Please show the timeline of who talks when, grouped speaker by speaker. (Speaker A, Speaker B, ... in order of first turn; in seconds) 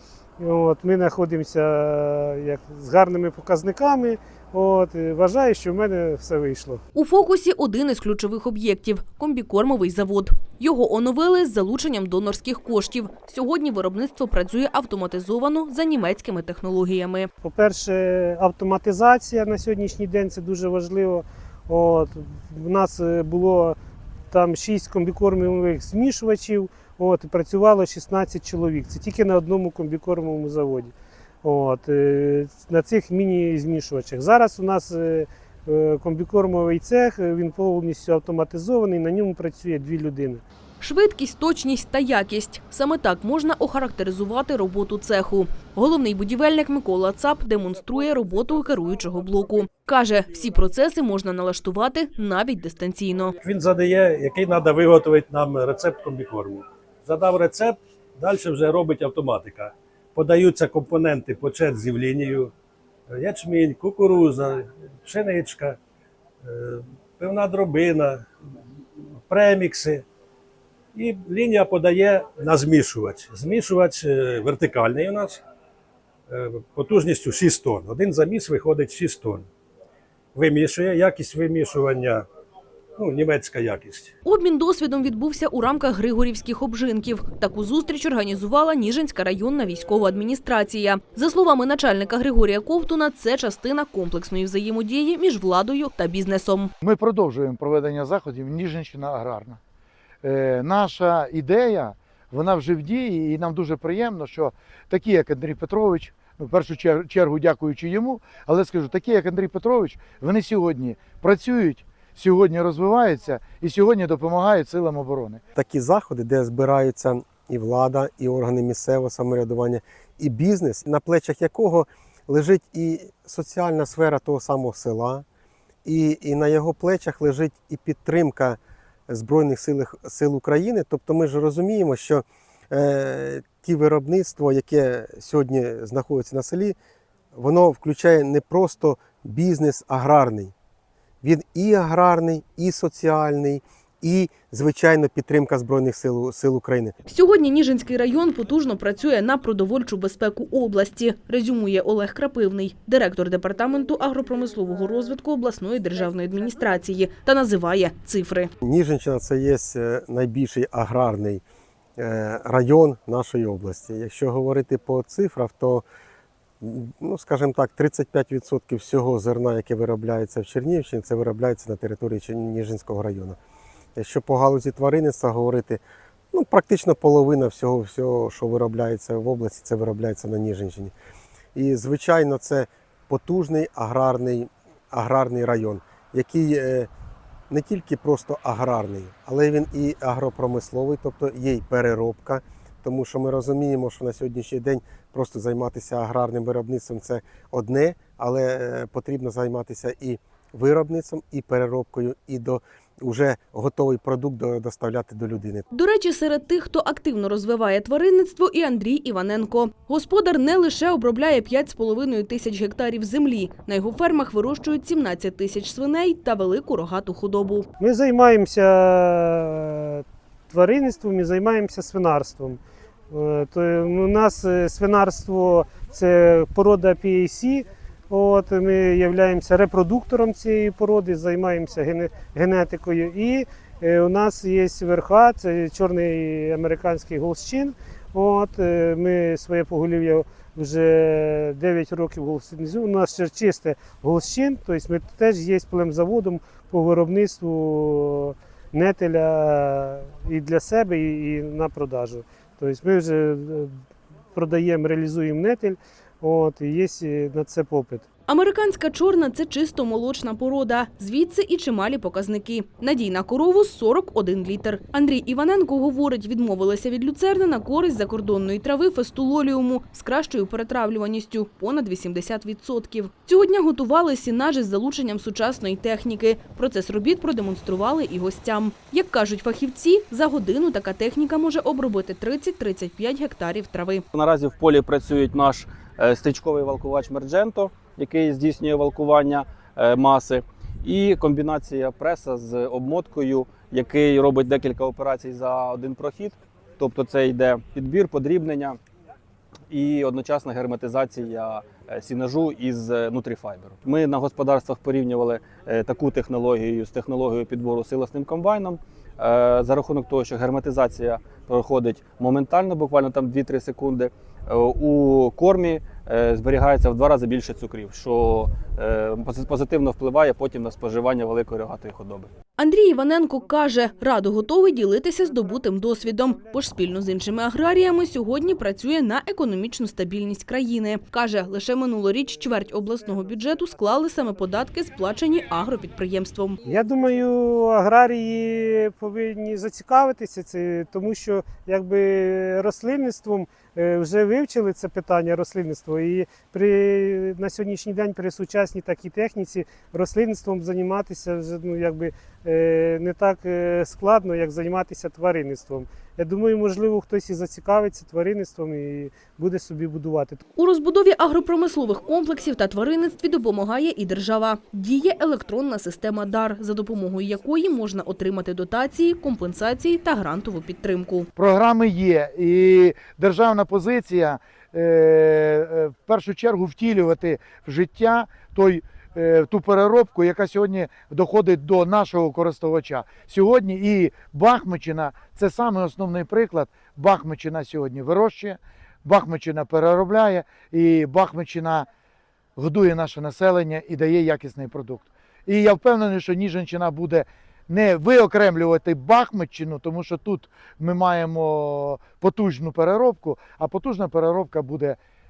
Speaker A: 0.4-6.8, 17.4-23.8, 24.3-40.4, 217.8-222.6, 223.1-253.7, 254.3-258.1, 336.6-360.4
Speaker B: 6.9-17.3, 40.8-53.3, 84.2-96.7, 147.1-158.5, 205.7-217.7, 258.3-284.0, 322.6-336.6, 360.6-371.3
Speaker C: 53.4-62.5, 63.1-65.8, 66.4-68.3, 69.2-70.0, 70.9-75.4, 76.3-79.5, 80.3-82.3, 83.0-84.1
Speaker D: 96.8-99.6, 100.2-115.4, 371.4-391.9, 392.6-405.0
Speaker E: 115.5-125.2, 125.8-136.8, 137.3-140.5, 141.2-146.9, 158.6-161.4, 162.0-165.8, 166.6-173.4, 173.9-175.8, 176.3-180.9, 181.5-186.9, 187.5-205.6
Speaker F: 284.1-298.8, 299.7-322.3